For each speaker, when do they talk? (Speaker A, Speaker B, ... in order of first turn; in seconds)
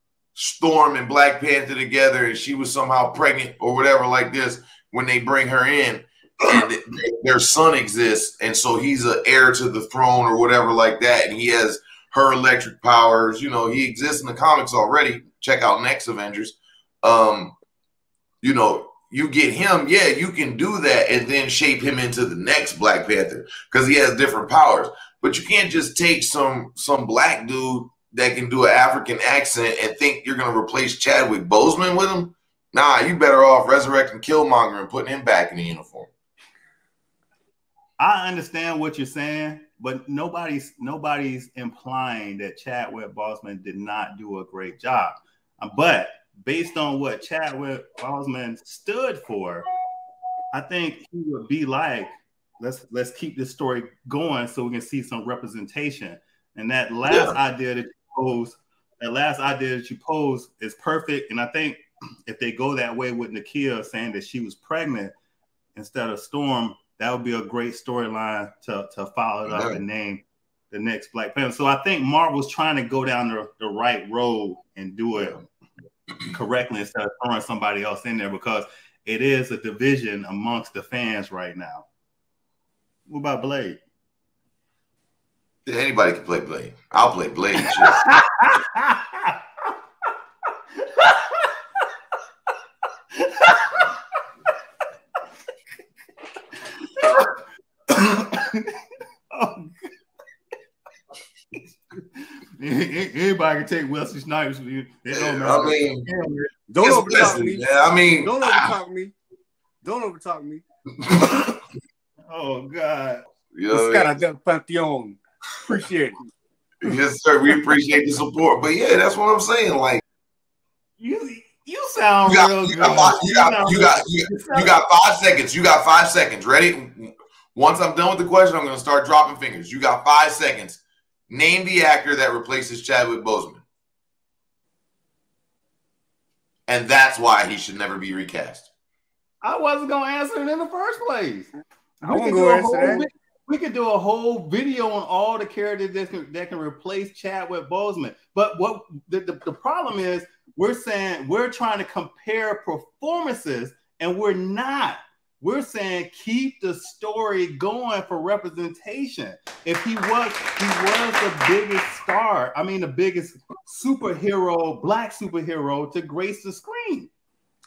Speaker A: 0.4-17.6, 18.4-36.1, 57.1-57.4, 69.5-69.8, 85.7-88.1, 105.1-106.1, 106.8-108.8, 113.5-114.2, 116.8-120.0, 122.3-133.6, 136.7-138.7
Speaker B: 38.0-49.6, 50.5-65.1, 65.8-75.4, 76.3-81.9, 83.1-83.8, 88.0-89.3, 91.0-91.5, 93.2-93.9, 97.0-97.3, 97.9-98.7, 99.3-99.7, 102.0-106.5, 112.3-113.2, 121.0-124.8, 139.4-141.5, 142.0-167.1
Speaker C: 106.7-109.2, 109.8-110.6, 113.7-116.2, 142.1-143.1